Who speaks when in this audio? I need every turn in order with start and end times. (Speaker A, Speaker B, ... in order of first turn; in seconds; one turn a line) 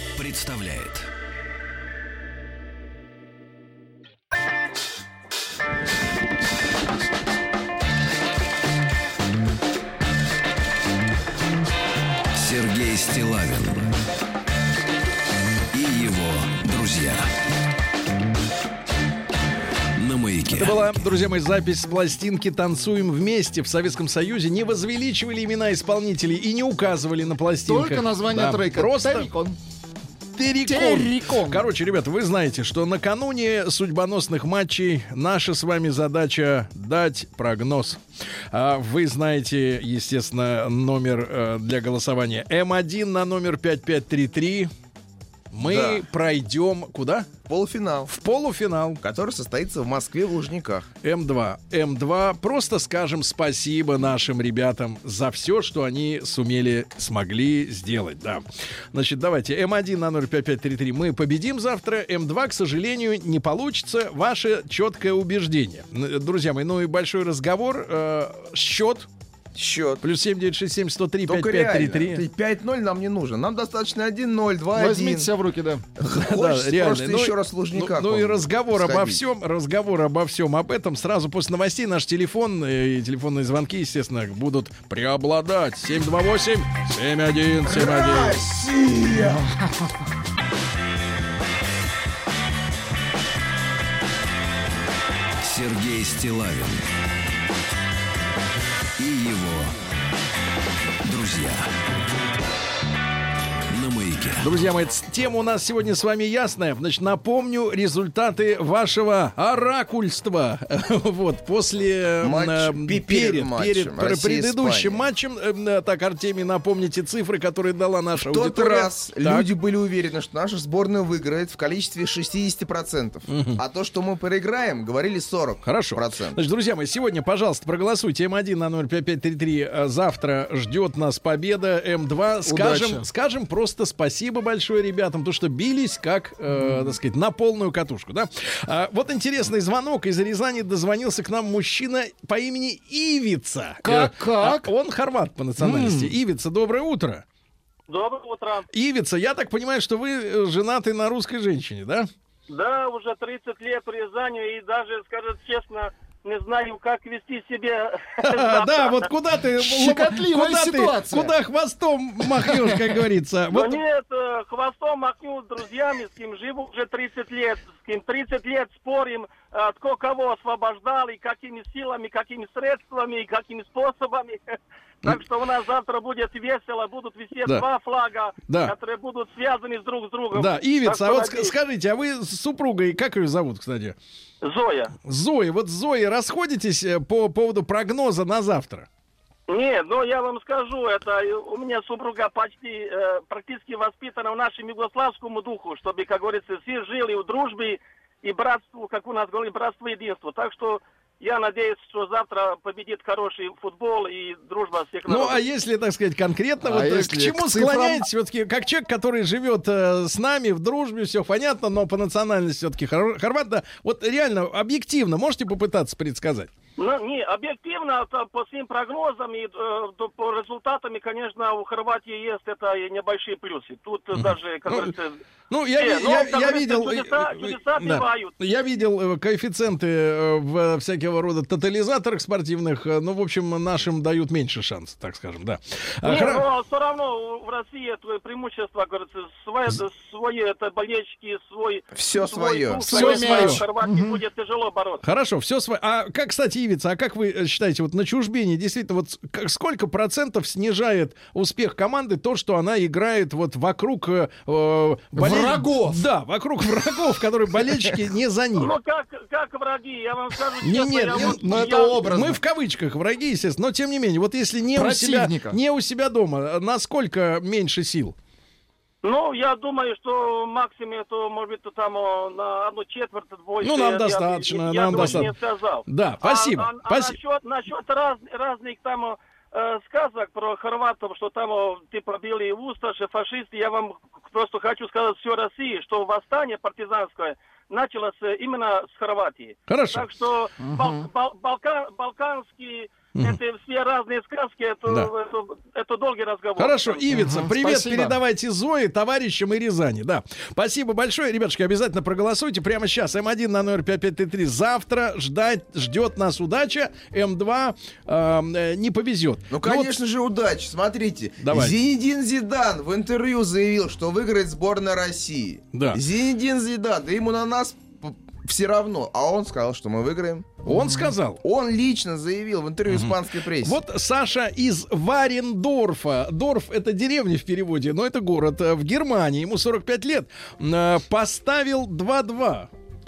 Speaker A: 0.1-1.1
Speaker A: 12.3-13.9
Speaker A: 15.7-17.3
Speaker A: 19.9-20.8
Speaker B: 20.5-29.3
Speaker C: 27.6-29.6
Speaker B: 30.3-38.0
Speaker C: 30.6-31.6
Speaker B: 38.5-44.7
Speaker B: 45.5-47.3
Speaker D: 45.6-46.0
Speaker D: 47.5-48.1
Speaker B: 48.1-49.0
Speaker D: 49.0-50.9
Speaker B: 51.0-69.1
Speaker D: 69.5-70.0
Speaker B: 70.0-72.2
Speaker D: 71.2-75.3
Speaker C: 74.7-75.8
Speaker D: 76.0-79.2
Speaker B: 76.1-88.4
Speaker D: 87.7-89.4
Speaker A: 95.4-96.8
Speaker A: 99.0-99.8
Speaker A: 101.0-101.7
Speaker A: 103.7-104.5
Speaker B: 104.4-119.5
Speaker D: 112.2-115.0
Speaker D: 118.2-126.4
Speaker B: 123.3-123.6
Speaker B: 125.6-147.2
Speaker C: 132.4-133.1
Speaker C: 136.5-137.0
Speaker C: 143.8-144.7
Speaker C: 145.6-146.2
Speaker E: 147.9-148.7
Speaker B: 148.7-152.1
Speaker E: 152.5-159.1
Speaker B: 158.2-163.8
Speaker C: 159.5-161.3
Speaker C: 162.3-163.0
Speaker E: 163.5-181.5
Speaker B: 178.5-178.7
Speaker B: 180.3-183.9
Speaker E: 184.4-184.9
Speaker B: 185.0-188.9
Speaker E: 189.5-205.4
Speaker B: 205.1-216.5
Speaker C: 206.6-208.1
Speaker E: 216.8-225.2
Speaker B: 224.1-224.9
Speaker B: 225.5-236.4
Speaker E: 225.7-228.3
Speaker E: 236.0-245.0
Speaker D: 241.9-243.5
Speaker B: 242.9-243.6
Speaker C: 243.0-244.2
Speaker B: 245.0-258.7
Speaker C: 255.1-256.0
Speaker E: 258.6-261.9
Speaker B: 260.6-268.1
Speaker C: 261.1-262.4
Speaker C: 264.7-265.6
Speaker E: 269.0-297.0
Speaker B: 273.6-275.3
Speaker C: 274.9-275.2
Speaker B: 275.9-277.2
Speaker B: 289.7-290.1
Speaker C: 290.6-291.0
Speaker B: 296.6-309.9
Speaker C: 297.1-298.2
Speaker D: 309.5-320.6
Speaker B: 311.4-311.8
Speaker B: 315.7-316.0
Speaker B: 320.6-321.4
Speaker C: 320.7-321.1
Speaker D: 321.4-323.8
Speaker B: 322.9-332.7